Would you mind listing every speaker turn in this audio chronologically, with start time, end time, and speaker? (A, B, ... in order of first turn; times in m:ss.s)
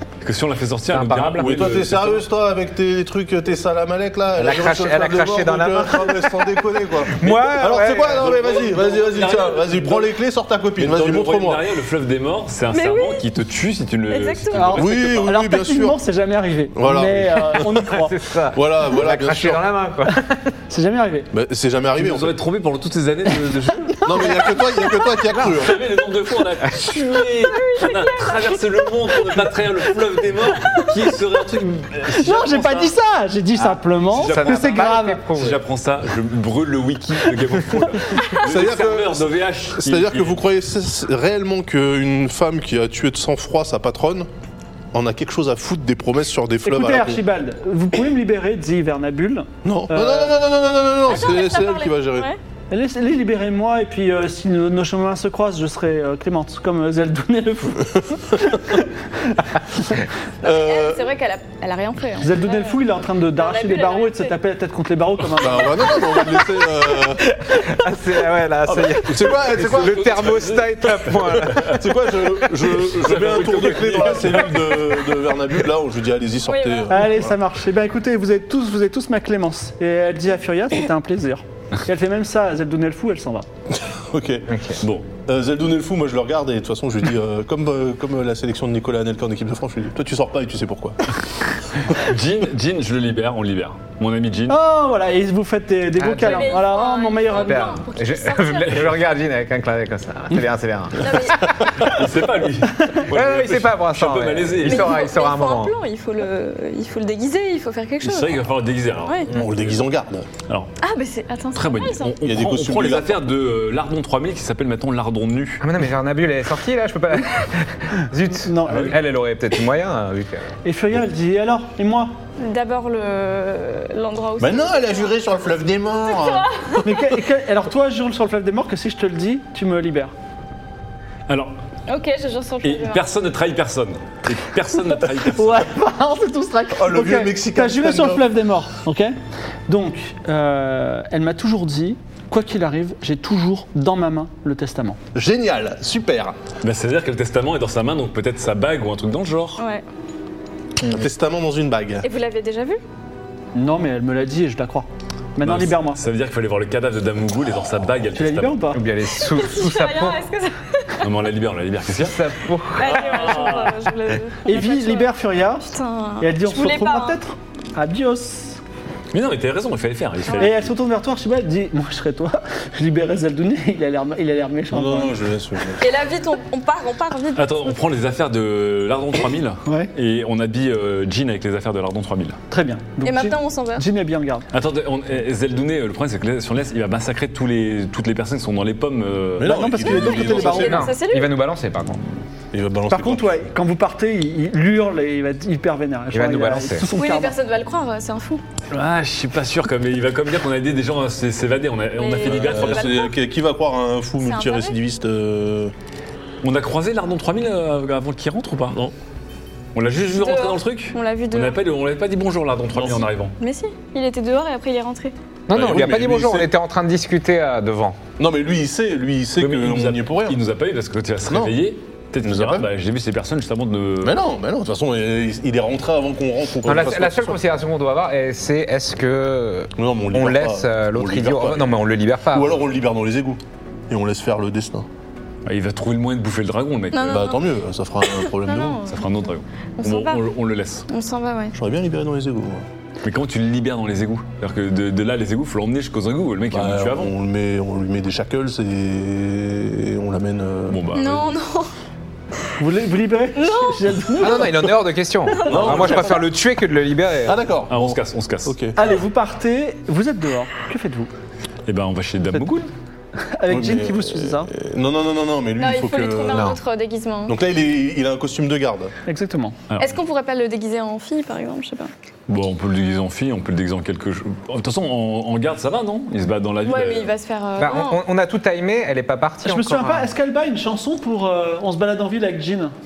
0:00.2-0:02.2 A
0:00.9-0:01.9 B
0:01.4-0:11.6 C
0:04.4-0:08.4 B
0:08.0-0:10.2 A
0:10.8-0:15.3 A
0:12.7-0:13.2 D
0:14.1-0:14.8 D
0:14.5-0:18.2 E
0:14.8-0:16.0 C
0:16.8-0:17.9 C
0:17.8-0:20.5 B
0:18.5-0:19.6 C
0:20.7-0:21.3 E
0:21.3-0:22.4 C
0:22.0-0:24.3 A
0:24.0-0:24.2 E
0:24.0-0:25.8 C
0:25.3-0:32.9 A
0:27.4-0:28.6 D
0:32.1-0:35.2 E
0:33.6-0:35.6 B
0:34.1-0:40.4 A
0:38.4-0:44.3 C
0:44.9-0:47.2 C
0:46.6-0:50.4 E
0:49.6-0:52.3 C
0:51.1-0:52.4 D
0:52.7-0:59.9 E
1:00.4-1:01.1 C
1:00.5-1:02.8 D
1:02.2-1:06.2 E
1:03.3-1:04.4 D
1:05.4-1:07.3 C
1:07.4-1:12.1 B
1:08.7-1:10.2 C
1:09.4-1:11.8 A
1:11.6-1:17.3 C
1:12.7-1:15.0 A
1:16.5-1:17.0 D
1:16.9-1:23.5 E
1:23.7-1:24.5 C
1:24.5-1:24.8 B
1:24.8-1:25.1 A
1:25.3-1:31.1 C
1:31.9-1:34.6 A
1:34.5-1:37.7 E
1:36.0-1:36.5 B
1:36.1-1:38.9 D
1:37.4-1:41.9 B
1:41.0-1:41.4 D
1:41.8-1:45.0 A
1:43.1-1:45.8 B
1:44.6-1:48.4 D
1:48.0-1:49.8 A
1:49.0-1:49.3 D
1:49.3-1:50.3 C
1:50.8-1:52.1 D
1:51.5-1:55.6 A
1:52.2-1:53.3 C
1:55.6-2:00.5 B
1:58.4-1:59.0 E
2:00.6-2:02.2 E
2:02.4-2:05.2 D
2:04.4-2:06.5 C
2:06.1-2:06.8 D
2:06.8-2:10.1 E
2:11.3-2:11.6 A
2:11.9-2:13.0 D
2:12.6-2:15.7 A
2:15.3-2:19.2 E
2:16.8-2:18.4 C
2:19.7-2:25.0 E
2:25.2-2:26.4 C
2:26.6-2:29.6 A
2:29.6-2:29.8 D
2:30.8-2:32.1 C
2:32.0-2:32.8 D
2:33.6-2:36.0 E
2:35.4-2:38.7 A
2:38.2-2:38.8 E
2:38.7-2:40.2 B
2:39.2-2:41.1 D
2:41.0-2:42.2 A
2:42.0-2:43.5 B
2:42.8-2:45.1 D
2:42.8-2:43.8 A
2:44.4-2:48.6 E
2:45.7-2:47.2 D
2:49.1-2:50.7 A
2:50.4-2:55.1 E
2:54.7-2:55.8 C
2:55.8-2:57.8 D
2:57.4-3:02.4 A
2:59.7-2:59.9 E
3:02.5-3:04.5 E
3:03.0-3:03.8 D
3:04.5-3:09.9 A
3:09.4-3:10.9 C
3:09.4-3:10.9 E
3:10.0-3:11.3 D
3:10.6-3:12.0 B
3:12.5-3:13.4 C
3:12.9-3:17.4 E
3:16.1-3:16.9 B
3:16.9-3:18.4 D
3:18.7-3:23.0 A
3:22.0-3:23.1 D
3:22.2-3:25.7 C
3:24.2-3:24.8 D
3:26.4-3:28.9 A
3:29.8-3:33.4 A
3:30.1-3:31.6 D
3:32.8-3:33.1 C
3:33.4-3:35.1 D
3:35.5-3:38.0 B
3:35.5-3:36.5 C
3:38.2-3:40.4 C
3:39.4-3:44.2 A
3:41.3-3:41.6 C
3:42.2-3:42.7 C
3:44.0-3:47.4 C
3:46.6-3:52.6 B
3:49.8-3:51.8 C
3:52.3-3:53.4 C
3:53.9-3:54.9 C
3:55.5-3:57.3 A
3:56.9-3:57.5 D
3:57.1-3:58.8 C
3:58.1-3:59.1 D
3:58.8-4:00.9 A
3:59.8-4:00.3 D
4:00.9-4:01.6 D
4:01.5-4:02.6 C
4:03.0-4:07.1 A
4:06.5-4:10.8 C
4:10.7-4:11.3 A
4:10.9-4:11.7 D
4:12.6-4:14.5 E
4:13.4-4:14.4 D
4:14.2-4:17.4 B
4:15.3-4:16.2 D
4:15.5-4:16.2 C
4:17.2-4:18.8 C
4:17.7-4:18.6 A
4:18.8-4:21.1 E
4:21.7-4:22.7 A
4:23.3-4:24.5 E
4:23.5-4:26.6 C
4:25.6-4:27.4 D
4:26.3-4:26.6 B
4:27.3-4:28.9 C
4:29.1-4:29.6 E
4:29.7-4:30.0 A
4:29.8-4:31.9 D
4:32.3-4:37.2 A
4:36.6-4:38.0 D
4:37.6-4:40.1 B
4:39.4-4:42.7 E